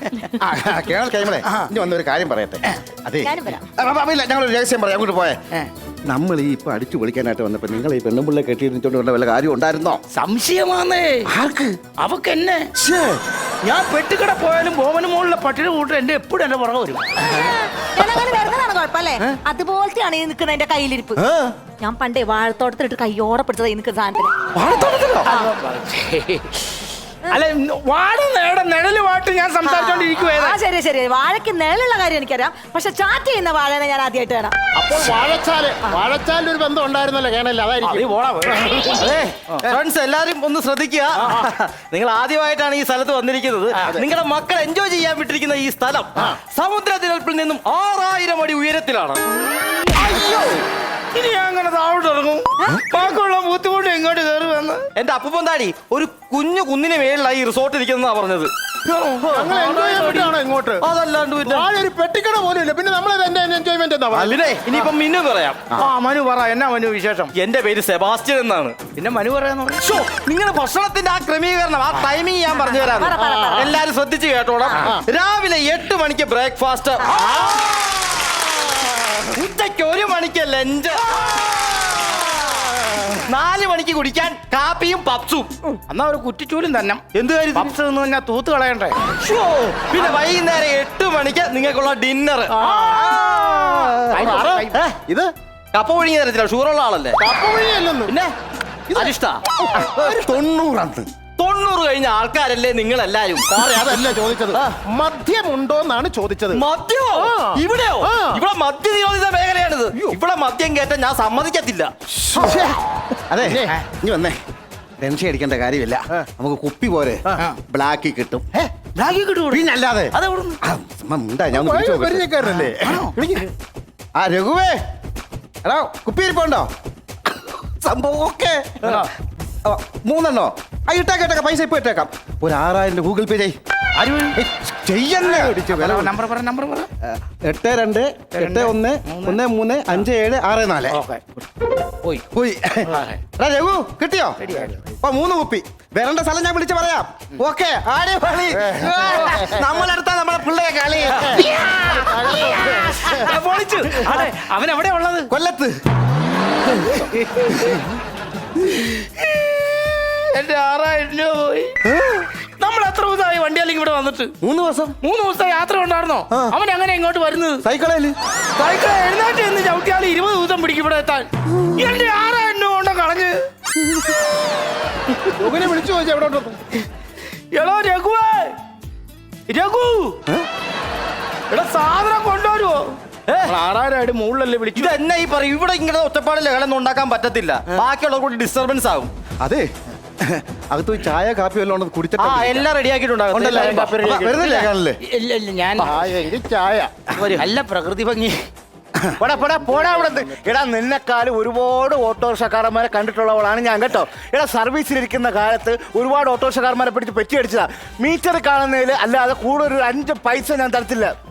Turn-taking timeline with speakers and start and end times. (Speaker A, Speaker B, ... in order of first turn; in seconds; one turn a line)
Speaker A: 0.4-5.4
Speaker B: 3.2-3.6
Speaker A: 6.1-10.0
Speaker C: 10.1-12.7
Speaker A: 12.8-13.2
Speaker C: 13.6-17.5
Speaker B: 17.9-21.2
Speaker B: 21.7-24.3
Speaker C: 24.6-26.6
Speaker B: 25.2-25.5
Speaker C: 27.3-30.6
Speaker B: 29.6-34.5
Speaker D: 34.8-39.1
Speaker C: 37.8-38.9
Speaker E: 38.8-49.2
Speaker C: 50.0-50.5
Speaker C: 51.1-54.9
Speaker E: 55.0-58.5
Speaker C: 58.9-60.3
Speaker D: 59.3-60.9
Speaker E: 60.8-61.7
Speaker D: 61.4-64.9
Speaker E: 64.1-65.7
Speaker C: 65.8-67.3
Speaker E: 67.3-68.9
Speaker C: 68.9-69.9
Speaker E: 69.8-77.6
Speaker B: 72.6-73.7
Speaker D: 73.5-73.7
Speaker E: 79.3-85.5
Speaker C: 85.9-89.0
Speaker E: 87.1-87.7
Speaker E: 89.2-92.5
Speaker D: 92.5-95.3
Speaker E: 94.1-94.9
Speaker E: 95.7-97.2
Speaker D: 97.2-98.1
Speaker E: 98.1-98.3
Speaker D: 98.9-101.1
Speaker E: 98.9-99.4
Speaker E: 101.4-103.5
Speaker D: 103.5-108.4
Speaker E: 106.5-111.9
Speaker D: 112.1-112.8
Speaker A: 112.3-112.6
Speaker A: 113.3-114.4
Speaker D: 113.4-113.8
Speaker A: 115.0-118.6
Speaker C: 118.9-119.6
Speaker A: 119.5-122.4
Speaker C: 120.1-120.6
Speaker D: 121.5-123.5
Speaker A: 124.2-124.8
Speaker A: 125.6-126.7
Speaker A: 127.8-129.0
Speaker A: 129.6-133.6
Speaker C: 134.0-134.4
Speaker A: 134.3-136.1
Speaker C: 135.2-136.9
Speaker A: 137.0-141.0
Speaker C: 138.3-139.4
Speaker C: 140.9-141.4
Speaker A: 142.3-151.4
Speaker C: 142.9-143.2
Speaker C: 144.4-144.8
Speaker D: 148.6-149.7
Speaker C: 151.1-155.3
Speaker D: 151.1-153.3
Speaker A: 155.3-155.8
Speaker C: 157.1-157.7
Speaker C: 159.0-159.6
Speaker C: 160.1-161.7
Speaker A: 161.8-162.3
Speaker C: 162.6-164.3
Speaker A: 164.4-164.9
Speaker C: 165.0-167.6
Speaker A: 166.3-166.6
Speaker A: 167.6-168.1
Speaker C: 168.6-173.4
Speaker D: 175.4-176.6
Speaker C: 177.5-178.5
Speaker C: 179.5-180.2
Speaker C: 181.5-184.9
Speaker E: 183.3-183.5
Speaker E: 184.7-189.1
Speaker A: 189.4-189.7
Speaker A: 190.2-192.7
Speaker E: 192.2-194.1
Speaker D: 193.3-194.5
Speaker A: 193.3-195.0
Speaker C: 195.0-195.9
Speaker D: 195.8-196.9
Speaker E: 197.1-197.4
Speaker C: 197.3-198.5
Speaker F: 199.2-211.1
Speaker D: 199.4-200.4